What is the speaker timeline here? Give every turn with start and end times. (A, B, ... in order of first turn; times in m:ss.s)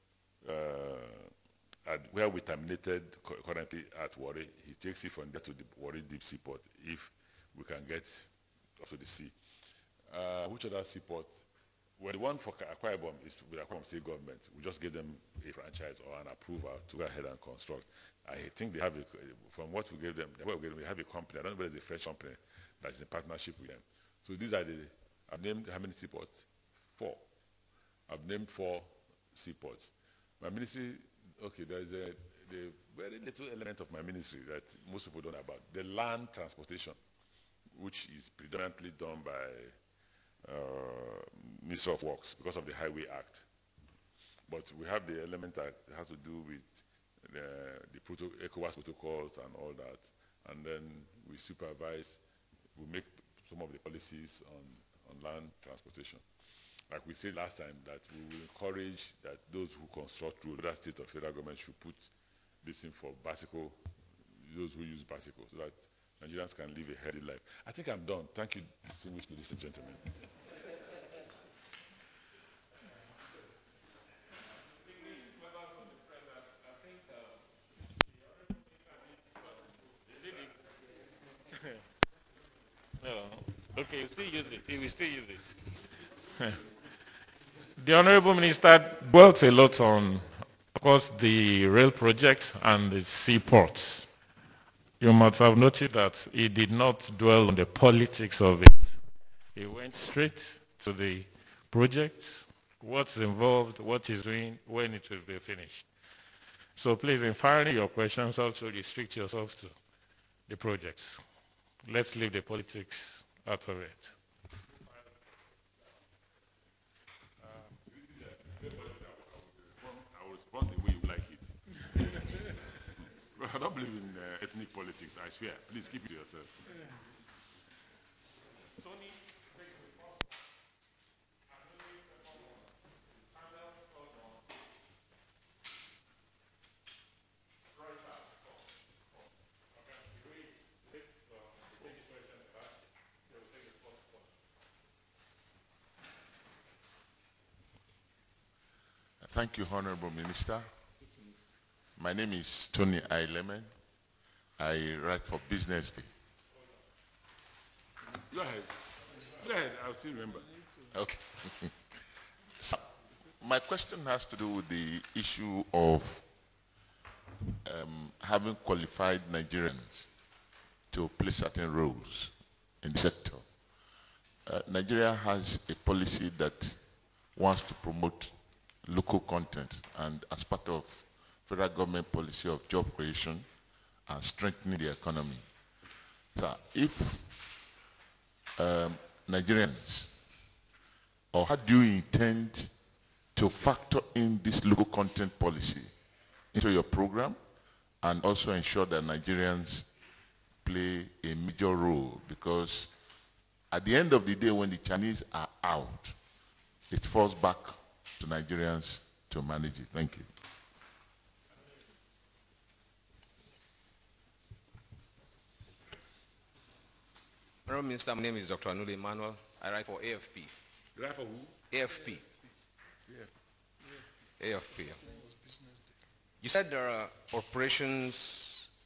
0:00.4-0:01.3 A
0:01.9-0:09.3 A
0:10.1-0:11.4 A
0:12.0-0:26.5 A
0:27.0-0:27.2 A
0:28.1-0:37.0 A
0:37.7-0:39.8 A
0:40.4-0:43.4 A
0:44.5-0:52.2 A
0:52.8-0:56.2 A
0:56.9-1:02.1 A
1:02.6-1:03.8 A
1:04.3-1:10.1 A
1:20.2-1:20.5 B
1:23.0-1:25.5 B
1:26.4-1:26.6 B
1:27.8-1:34.2 B
1:35.0-1:39.0 B
1:39.5-1:45.9 B
1:46.8-1:49.8 B
1:50.5-1:51.2 B
1:51.8-1:54.1 B
1:57.8-2:02.1 A
2:02.8-2:06.8 A
2:08.8-2:10.0 B
2:11.5-2:12.7 B
2:13.2-2:14.4 B
2:17.8-2:18.4 B
2:19.7-2:22.7 B
2:23.3-2:24.0 B
2:29.2-2:30.7 C
2:32.0-2:33.8 C
2:34.6-2:36.1 C
2:38.3-2:40.5 A
2:40.9-2:41.9 C
2:42.6-2:46.3 C
2:47.6-2:50.2 C
2:50.9-2:53.9 C
2:54.4-3:03.6 C
3:04.1-3:07.4 C
3:08.6-3:10.1 C
3:11.3-3:12.7 C
3:13.4-3:15.9 C
3:16.5-3:17.4 C
3:18.0-3:19.9 C
3:20.6-3:22.9 C
3:23.7-3:26.2 C
3:26.9-3:30.3 C
3:37.7-3:40.5 D
3:41.0-3:41.6 A
3:41.7-3:42.3 D
3:44.4-3:45.0 D
3:46.4-3:48.7 D